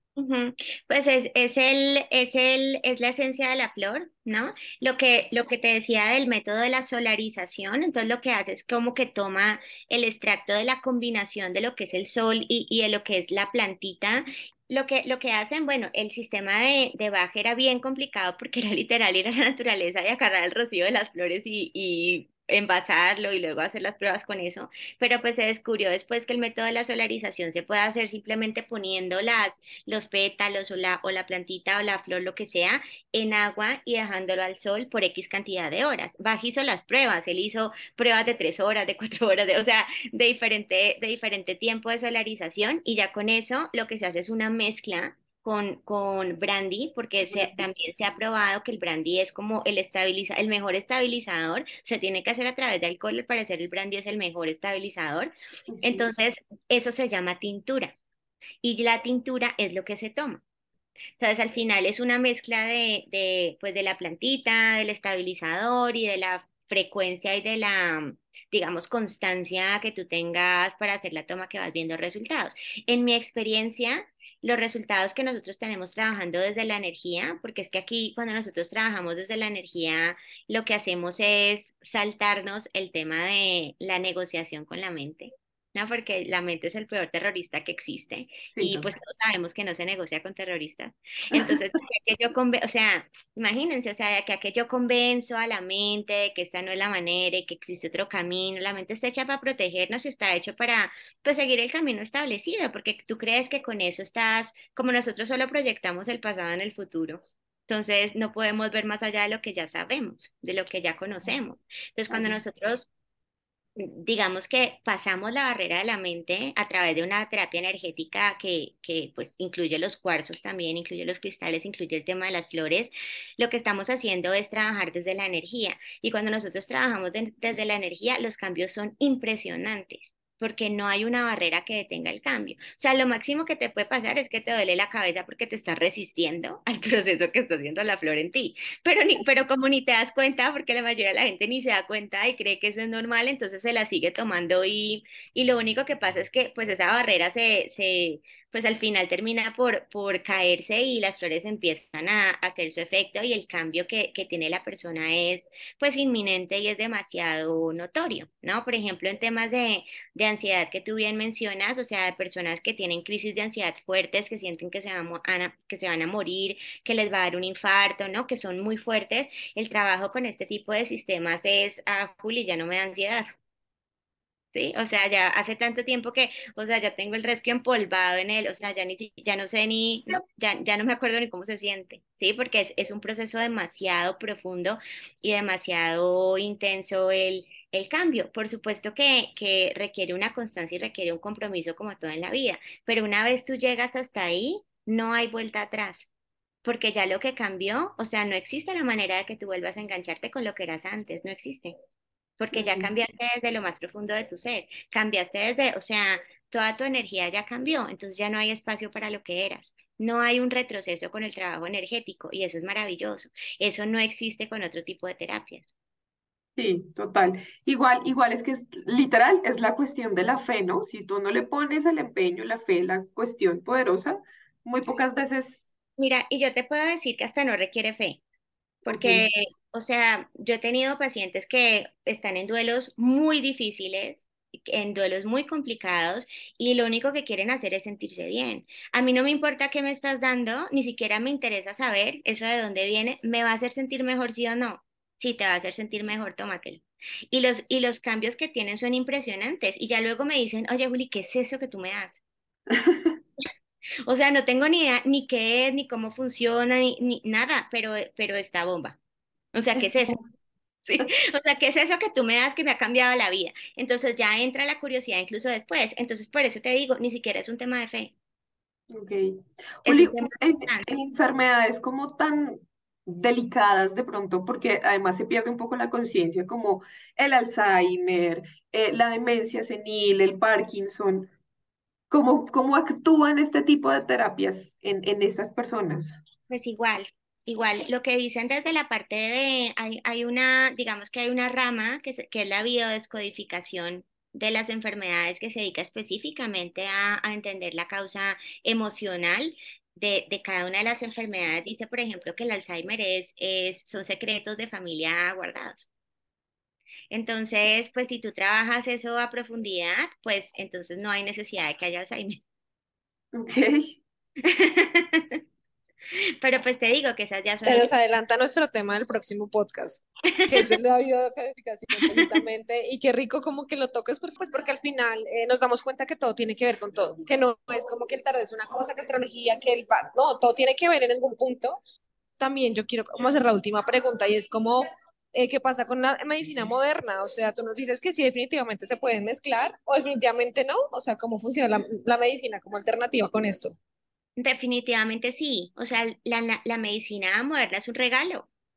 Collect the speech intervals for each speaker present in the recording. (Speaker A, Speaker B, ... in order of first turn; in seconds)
Speaker A: 0.1-57.9, 58.6-60.4, 61.2-112.9, 113.8-173.3, 174.5-196.1, 196.6-201.7, 202.4-215.7, 226.0-228.2, 228.8-252.2, 254.0-259.0, 259.5-260.2, 260.8-268.1, 269.9-270.9, 286.5-305.9, 307.1-312.4, 314.4-315.4, 316.4-317.9, 320.3-320.6, 344.4-348.5
Speaker B: 47.3-47.6, 55.7-56.1, 88.5-88.9, 91.3-91.6, 112.1-112.4, 202.5-202.9, 216.6-225.7, 228.9-229.3, 252.7-253.2, 259.8-260.2, 268.9-281.3, 282.1-286.2, 313.3-314.0
Speaker C: 317.6-331.8, 332.4-343.8